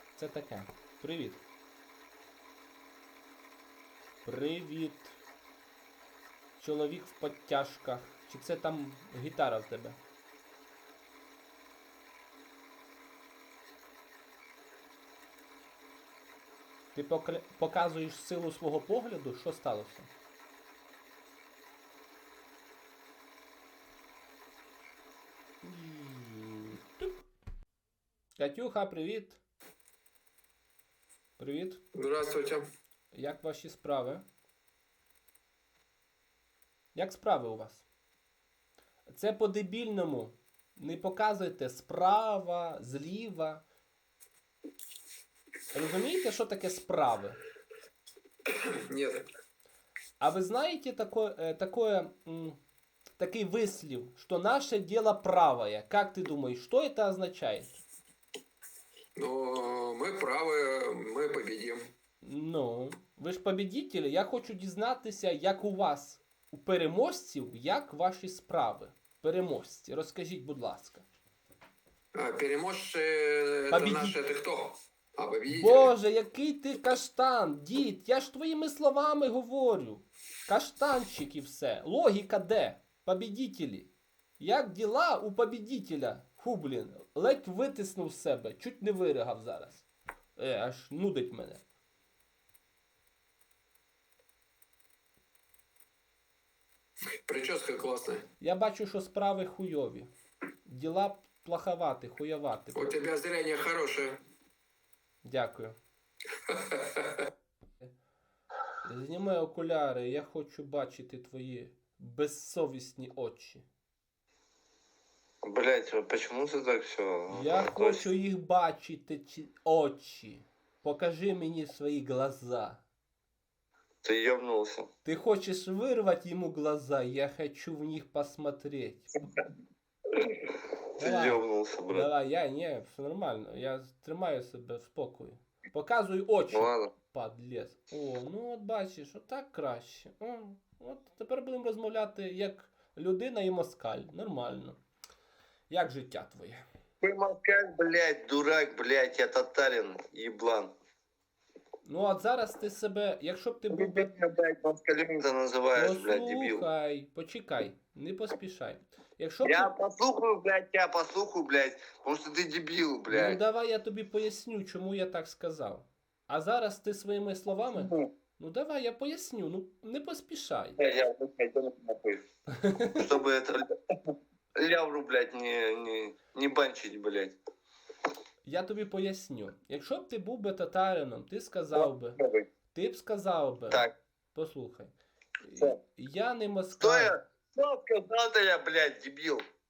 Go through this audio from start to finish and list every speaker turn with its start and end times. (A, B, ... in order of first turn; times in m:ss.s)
0:00.2-0:01.4 A
0:04.2-0:05.2 A
0:06.6-0:10.0 A
0:16.9-0:20.1 A
0:25.6-0:27.2 A
0:28.4-0:29.4 A
0:31.4-0:31.8 A
0:31.9-0:32.7 B
0:33.1-0:34.2 A
0:36.9-0:37.8 A
0:39.1-0:43.6 A
0:45.7-0:47.4 A
0:48.8-0:49.2 B
0:50.2-0:52.6 A
0:53.2-0:57.8 A
0:59.2-1:01.9 B
1:02.2-1:11.0 A
1:12.1-1:15.9 B
1:13.7-1:14.2 A
1:15.5-1:29.8 A
1:30.4-1:31.6 A
1:37.3-1:38.2 B
1:38.4-1:40.1 A
1:40.6-1:43.0 A
1:42.7-1:44.2 B
1:45.2-1:45.8 A
1:46.5-1:47.2 B
1:48.8-1:53.6 A
1:55.4-1:58.1 C
1:57.3-2:02.8 A
2:04.0-2:04.9 C
2:05.0-2:09.1 A
2:10.2-2:12.1 C
2:11.0-2:24.8 A
2:16.5-2:16.9 C
2:25.7-2:26.6 A
2:27.0-2:30.7 C
2:31.8-2:34.1 A
2:33.7-2:36.6 C
2:35.7-2:39.7 A
2:39.4-2:43.4 C
2:43.1-2:50.8 A
2:47.7-2:48.1 C
2:50.8-2:52.2 C
2:52.5-2:53.1 A
2:52.9-2:53.6 C
2:54.5-2:57.3 C
2:58.4-3:02.2 A
3:01.7-3:02.5 C
3:02.7-3:07.1 A
3:06.8-3:09.4 C